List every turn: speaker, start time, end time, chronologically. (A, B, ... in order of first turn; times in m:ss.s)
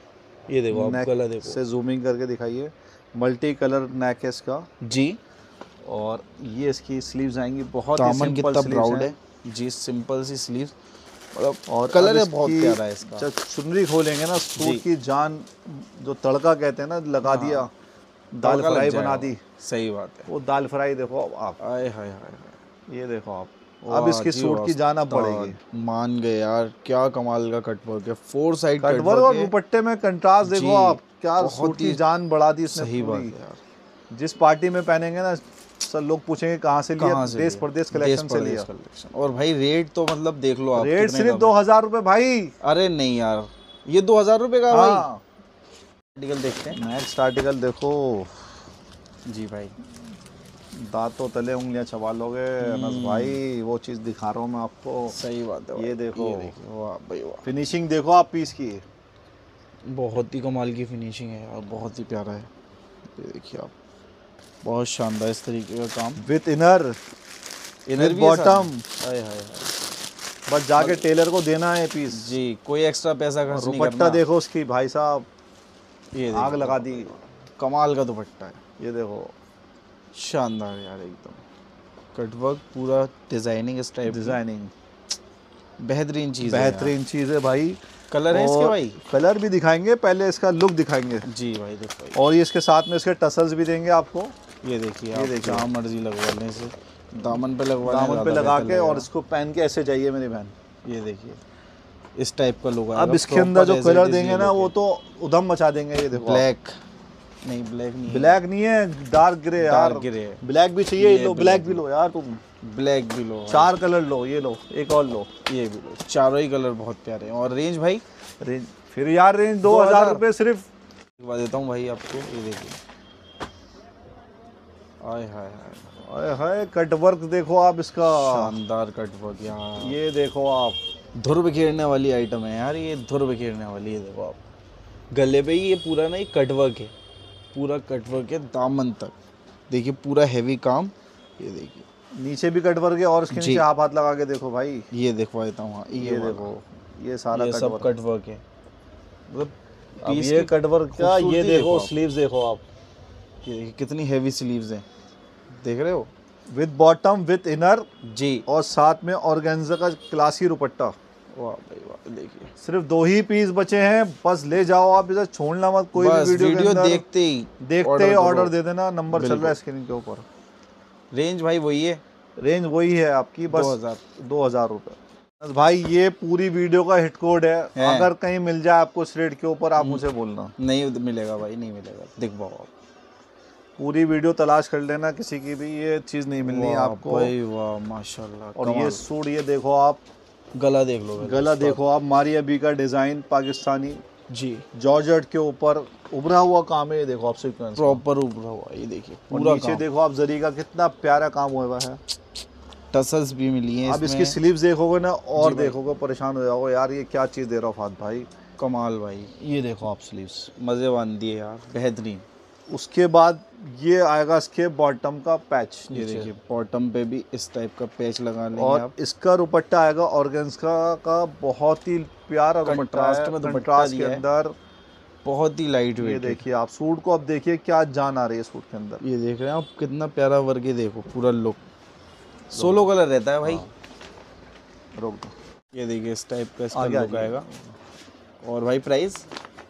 0:00.5-0:01.6 A
0:00.7-0:04.7 B
0:04.8-0:05.2 A
0:05.8-0:09.2 B
0:08.0-0:10.7 A
0:11.3-0:13.3 A
0:11.7-0:17.7 B
0:14.6-0:14.8 A
0:17.2-0:17.7 A
0:18.4-0:19.4 B
0:18.4-0:20.3 A
0:20.3-0:21.6 B
0:21.6-0:22.6 A
0:22.9-0:25.6 B
0:23.8-0:29.5 A
0:28.8-0:33.4 B
0:30.4-0:32.0 A
0:32.7-0:33.6 A
0:34.1-0:38.7 B
0:37.0-0:41.6 A
0:40.8-0:42.5 B
0:42.6-0:45.1 A
0:44.7-0:45.2 B
0:46.2-0:46.8 A
0:46.7-0:48.5 B
0:49.3-0:49.7 A
0:50.7-0:55.2 B
0:52.6-0:53.4 A
0:55.1-0:57.5 A
0:55.8-0:56.5 B
0:57.4-0:58.8 B
0:59.9-1:02.5 A
1:03.2-1:03.7 A
1:04.6-1:06.2 A
1:06.2-1:07.0 B
1:07.9-1:09.7 A
1:08.0-1:08.8 B
1:10.5-1:12.3 B
1:10.8-1:11.0 A
1:12.1-1:14.2 A
1:13.5-1:15.3 B
1:16.2-1:18.6 A
1:16.3-1:17.1 B
1:18.8-1:19.3 B
1:20.2-1:21.4 A
1:22.2-1:24.4 A
1:24.1-1:24.7 B
1:25.8-1:26.9 A
1:26.4-1:27.8 B
1:28.1-1:29.0 A
1:28.3-1:31.3 B
1:31.3-1:32.2 A
1:32.2-1:34.3 B
1:34.6-1:39.1 A
1:35.1-1:35.7 B
1:37.4-1:40.5 B
1:40.9-1:41.4 A
1:42.2-1:44.7 A
1:42.9-1:46.5 B
1:46.2-1:46.8 A
1:47.4-1:48.4 A
1:48.1-1:52.4 B
1:49.6-1:50.4 A
1:51.0-1:51.8 A
1:52.6-1:53.7 A
1:53.5-1:55.3 B
1:55.5-1:58.0 A
1:58.4-2:00.7 B
1:59.6-2:00.2 A
2:01.2-2:02.8 A
2:05.0-2:06.0 A
2:06.0-2:08.6 B
2:08.1-2:10.0 A
2:09.8-2:10.8 B
2:11.2-2:14.4 A
2:15.1-2:16.9 A
2:17.5-2:19.1 A
2:19.7-2:21.8 A
2:22.2-2:24.9 B
2:23.3-2:23.6 A
2:24.9-2:26.5 A
2:25.9-2:27.9 B
2:27.3-2:28.4 A
2:29.3-2:31.9 A
2:30.0-2:32.6 B
2:33.4-2:34.8 A
2:35.5-2:36.1 A
2:36.5-2:37.9 B
2:38.1-2:38.4 A
2:38.5-2:41.0 B
2:41.3-2:42.5 A
2:42.6-2:47.0 B
2:46.0-2:48.5 A
2:47.6-2:50.2 B
2:49.1-2:49.6 A
2:51.1-2:52.0 A
2:52.4-3:00.5 B
2:53.5-2:54.0 A
2:57.8-2:58.1 A
2:59.8-3:00.0 A
3:00.6-3:02.7 A
3:03.8-3:07.3 B
3:06.4-3:09.0 A
3:08.6-3:10.0 B
3:10.6-3:11.8 A
3:11.2-3:14.0 B
3:14.3-3:14.6 A
3:14.7-3:18.0 B
3:17.8-3:19.8 A
3:19.3-3:22.0 B
3:22.9-3:24.4 A
3:23.8-3:28.3 B
3:25.4-3:25.9 A
3:28.6-3:29.3 A
3:29.4-3:30.5 B
3:30.6-3:32.2 A
3:32.7-3:36.3 B
3:35.9-3:38.9 A
3:38.5-3:44.5 B
3:42.7-3:44.2 A
3:45.2-3:46.4 A
3:46.0-3:49.0 B
3:49.0-3:51.6 A
3:52.5-3:52.8 B
3:52.5-3:53.6 A
3:53.4-3:53.7 B
3:55.0-3:55.3 B
3:55.7-3:57.4 A
3:56.7-3:57.6 B
3:58.4-3:59.2 A